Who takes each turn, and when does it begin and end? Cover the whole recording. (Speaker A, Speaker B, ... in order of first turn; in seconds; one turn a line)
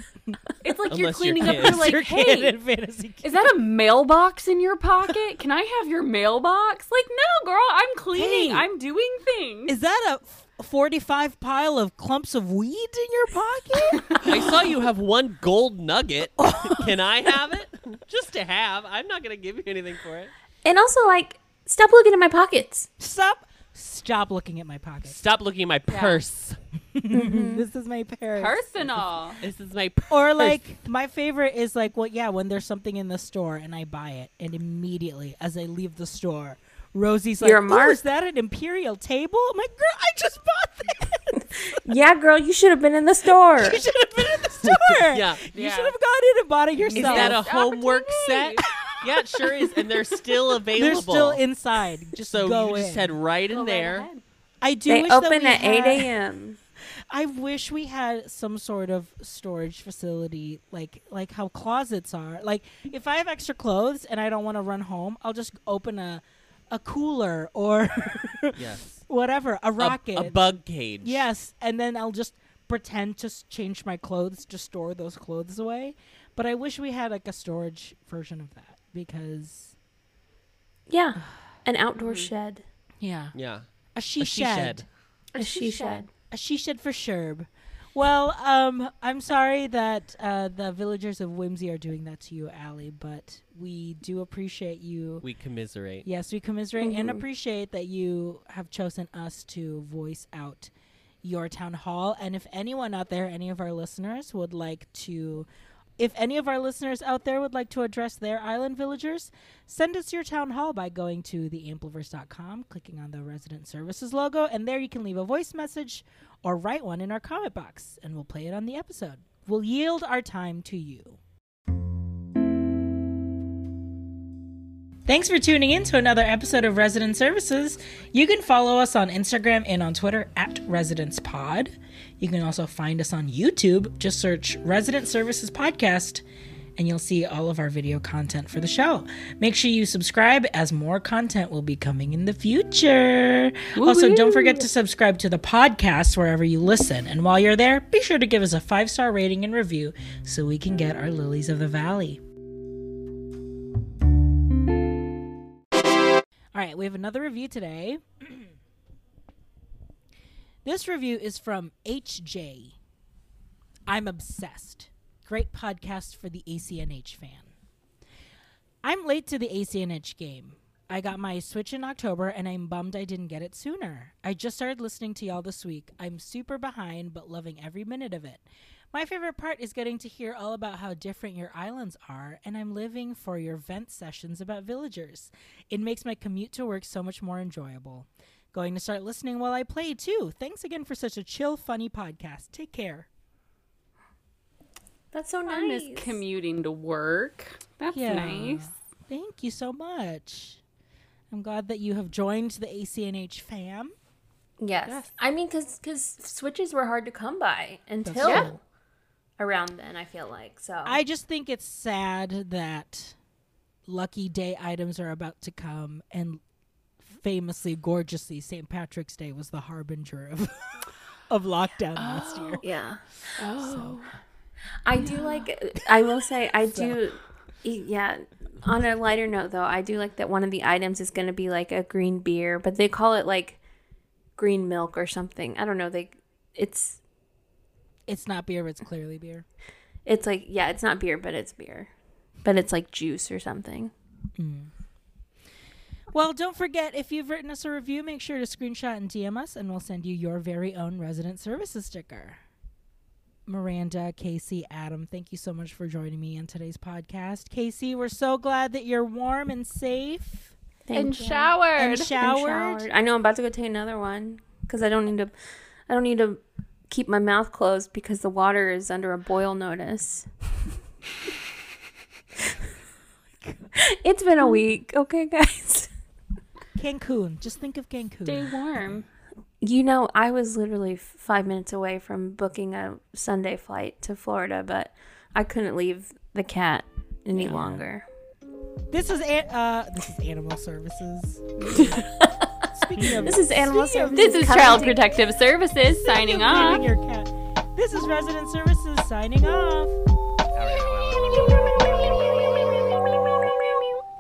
Speaker A: 0.6-2.6
Speaker B: 0.9-1.9
Speaker C: 1.4-3.5
Speaker A: 3.2-9.8
Speaker C: 8.1-8.7
Speaker C: 9.7-14.2
Speaker A: 14.0-14.2
Speaker B: 14.2-20.3
Speaker C: 16.4-16.9
Speaker D: 20.6-22.9
Speaker C: 23.0-25.2
Speaker B: 25.1-26.6
Speaker A: 25.9-26.2
Speaker C: 26.9-29.1
Speaker D: 27.1-27.7
Speaker A: 28.4-29.4
Speaker B: 29.4-30.6
Speaker C: 30.1-41.8
Speaker D: 37.4-38.0
Speaker D: 41.8-43.8
Speaker C: 43.6-47.4
Speaker B: 44.6-45.5
Speaker A: 45.5-46.0
Speaker A: 46.9-48.6
Speaker B: 46.9-51.4
Speaker C: 50.7-53.2
Speaker B: 52.3-54.1
Speaker A: 53.5-54.2
Speaker C: 54.6-56.1
Speaker D: 54.9-56.6
Speaker C: 57.1-79.8
Speaker B: 68.6-69.0
Speaker B: 69.8-71.3
Speaker D: 80.9-82.6
Speaker A: 82.0-82.3
Speaker C: 83.0-83.4
Speaker B: 83.3-83.7
Speaker C: 83.9-84.9
Speaker B: 84.2-84.9
Speaker A: 85.3-86.1
Speaker D: 85.4-86.1
Speaker C: 86.3-95.3
Speaker B: 95.2-96.1
Speaker C: 96.0-100.7
Speaker D: 96.8-97.2
Speaker C: 101.2-105.5
Speaker C: 106.0-121.2
Speaker C: 125.0-136.2
Speaker C: 136.8-152.2
Speaker A: 143.8-144.7
Speaker C: 156.5-158.5
Speaker C: 160.7-162.8
Speaker C: 163.9-167.5
Speaker C: 168.8-193.1
Speaker D: 195.1-196.2
Speaker A: 195.5-198.7
Speaker C: 197.9-200.6
Speaker C: 201.3-203.9
Speaker D: 204.6-208.6
Speaker C: 208.0-208.6
Speaker A: 208.2-208.5
Speaker D: 209.4-211.0
Speaker C: 210.8-213.2
Speaker C: 213.9-216.4
Speaker C: 217.1-222.7
Speaker A: 222.0-222.6
Speaker D: 222.6-223.0
Speaker A: 223.4-224.1
Speaker C: 223.6-223.9
Speaker D: 224.8-233.6
Speaker A: 225.0-225.4
Speaker C: 226.7-227.0
Speaker D: 234.4-237.0
Speaker C: 238.1-239.5
Speaker D: 240.1-241.9
Speaker D: 242.4-243.9
Speaker C: 244.4-244.7
Speaker C: 246.1-252.4
Speaker C: 253.5-260.5
Speaker D: 260.9-261.6
Speaker A: 260.9-262.1
Speaker C: 261.8-262.9
Speaker D: 262.1-265.4
Speaker D: 265.9-270.3
Speaker D: 273.8-275.9
Speaker C: 276.8-279.0
Speaker A: 278.3-279.1
Speaker D: 279.6-288.1
Speaker C: 287.3-287.8
Speaker C: 288.9-294.8
Speaker D: 293.0-295.0
Speaker A: 294.2-296.8
Speaker C: 295.9-300.0
Speaker B: 300.5-303.5